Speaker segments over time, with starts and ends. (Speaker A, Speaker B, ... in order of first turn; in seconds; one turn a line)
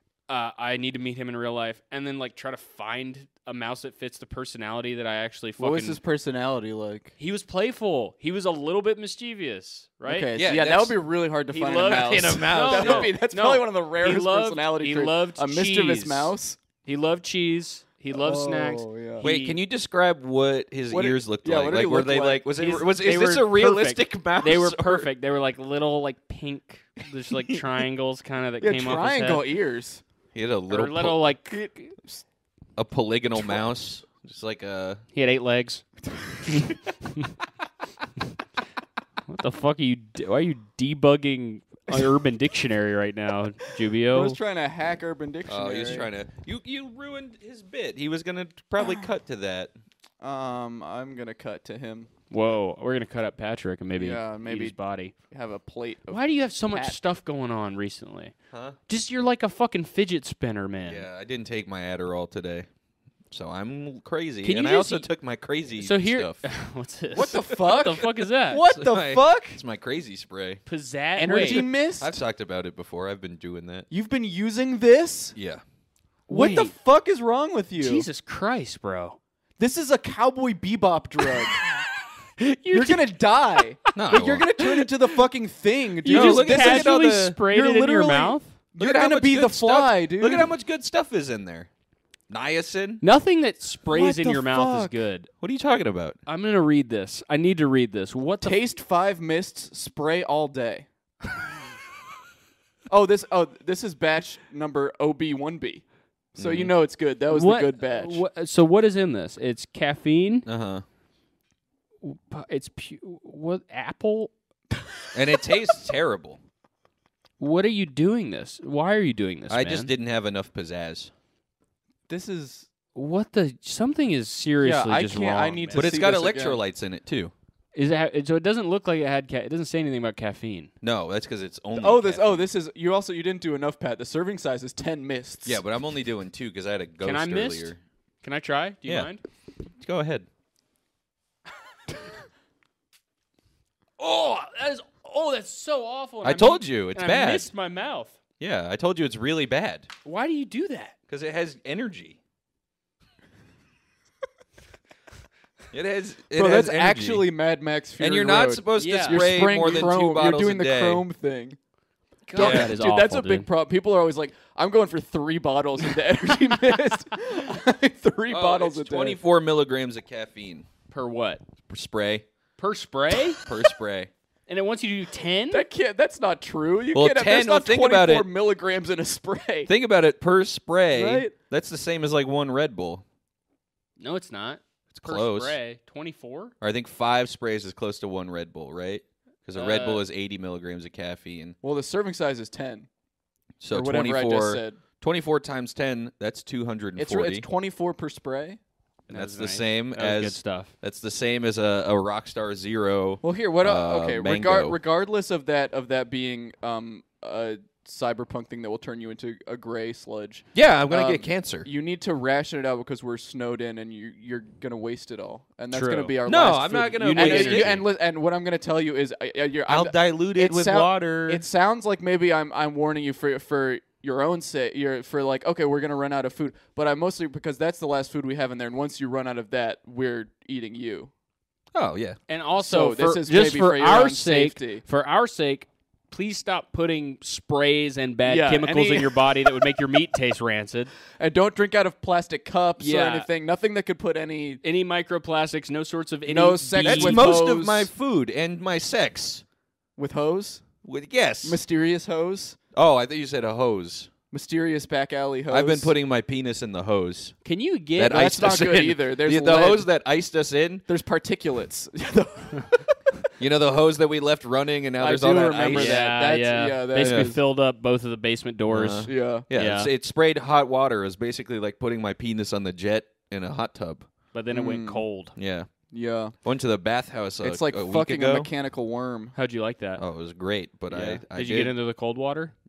Speaker A: 0.3-6.0
Speaker B: 5.6-7.1
Speaker A: 7.2-10.3
Speaker B: 10.1-16.6
Speaker C: 10.4-11.0
Speaker A: 11.5-19.6
Speaker C: 11.8-13.1
Speaker B: 18.1-19.3
Speaker C: 19.2-25.1
Speaker B: 20.9-22.5
Speaker A: 22.6-29.5
Speaker B: 28.6-30.0
Speaker C: 30.3-31.2
Speaker A: 30.7-31.9
Speaker B: 31.5-32.2
Speaker C: 32.8-35.0
Speaker A: 35.1-35.8
Speaker B: 36.1-36.8
Speaker A: 36.5-37.3
Speaker A: 39.3-44.4
Speaker B: 44.1-46.1
Speaker C: 45.5-49.7
Speaker B: 48.8-49.1
Speaker B: 50.2-52.1
Speaker A: 52.3-55.1
Speaker B: 54.0-54.8
Speaker B: 55.3-57.0
Speaker A: 56.1-58.3
Speaker C: 58.5-58.8
Speaker A: 58.9-61.1
Speaker C: 60.9-62.7
Speaker C: 63.3-66.4
Speaker A: 64.4-65.1
Speaker A: 65.8-68.6
Speaker B: 67.1-69.6
Speaker C: 68.6-70.6
Speaker A: 70.7-71.7
Speaker B: 71.2-72.2
Speaker C: 71.4-73.9
Speaker B: 73.9-75.3
Speaker C: 75.3-75.6
Speaker A: 76.3-76.7
Speaker B: 76.3-78.1
Speaker A: 77.8-79.2
Speaker B: 79.6-81.6
Speaker A: 82.4-83.6
Speaker B: 82.7-90.5
Speaker C: 84.0-84.7
Speaker A: 86.0-88.5
Speaker C: 86.1-87.4
Speaker C: 88.8-91.7
Speaker C: 92.3-93.0
Speaker A: 93.0-95.3
Speaker B: 93.9-95.0
Speaker C: 95.4-96.2
Speaker A: 96.2-98.6
Speaker B: 98.4-100.9
Speaker B: 102.9-105.8
Speaker B: 106.3-108.2
Speaker C: 106.4-106.7
Speaker A: 107.3-110.5
Speaker C: 110.5-110.8
Speaker A: 112.0-114.3
Speaker C: 115.1-116.4
Speaker A: 117.4-119.9
Speaker C: 119.5-121.1
Speaker B: 122.1-122.7
Speaker A: 123.0-125.9
Speaker B: 124.6-126.6
Speaker C: 125.7-127.3
Speaker A: 127.8-130.7
Speaker C: 130.8-132.5
Speaker B: 131.7-135.6
Speaker C: 135.5-137.8
Speaker A: 137.0-139.2
Speaker C: 139.8-140.3
Speaker A: 144.0-148.2
Speaker C: 146.2-147.5
Speaker C: 148.4-149.9
Speaker A: 150.1-150.9
Speaker C: 151.1-152.2
Speaker C: 155.7-157.3
Speaker B: 156.3-161.6
Speaker C: 158.0-161.1
Speaker A: 158.8-159.3
Speaker A: 162.3-163.5
Speaker B: 162.3-169.2
Speaker C: 162.4-162.7
Speaker C: 168.3-170.7
Speaker A: 170.9-171.4
Speaker C: 171.7-172.2
Speaker A: 172.6-173.4
Speaker C: 173.4-174.1
Speaker A: 174.5-175.7
Speaker B: 175.5-179.7
Speaker C: 176.9-178.3
Speaker C: 179.7-183.0
Speaker B: 180.9-181.3
Speaker A: 184.0-186.5
Speaker C: 184.9-185.6
Speaker C: 186.6-191.6
Speaker A: 189.5-190.0
Speaker B: 191.6-192.9
Speaker C: 193.6-197.5
Speaker B: 193.7-194.8
Speaker B: 197.0-198.6
Speaker A: 199.1-200.7
Speaker C: 199.1-204.8
Speaker B: 203.2-231.1
Speaker C: 210.5-211.7
Speaker A: 215.7-216.1
Speaker C: 216.2-217.9
Speaker A: 217.0-217.8
Speaker C: 219.7-221.4
Speaker C: 231.7-232.2
Speaker A: 232.3-240.9
Speaker B: 232.6-234.8
Speaker B: 238.2-239.8
Speaker B: 241.2-244.6
Speaker A: 242.8-243.3
Speaker A: 244.6-247.3
Speaker B: 246.3-247.9
Speaker C: 246.8-249.4
Speaker B: 250.0-250.7
Speaker C: 250.8-251.6
Speaker B: 251.4-252.6
Speaker C: 252.7-254.1
Speaker B: 254.3-255.9
Speaker C: 255.5-257.3
Speaker A: 257.4-258.7
Speaker C: 258.0-260.8
Speaker B: 258.1-259.9
Speaker B: 260.9-263.2
Speaker C: 263.4-266.0
Speaker B: 265.0-267.4
Speaker A: 265.7-269.9
Speaker C: 267.0-267.3
Speaker C: 268.7-274.1
Speaker B: 269.0-269.5
Speaker A: 274.3-275.3
Speaker B: 274.5-275.0
Speaker C: 275.4-275.7
Speaker B: 275.9-276.3
Speaker C: 276.4-278.5
Speaker B: 277.4-279.3
Speaker A: 279.3-280.0
Speaker C: 280.0-281.7
Speaker A: 280.9-282.5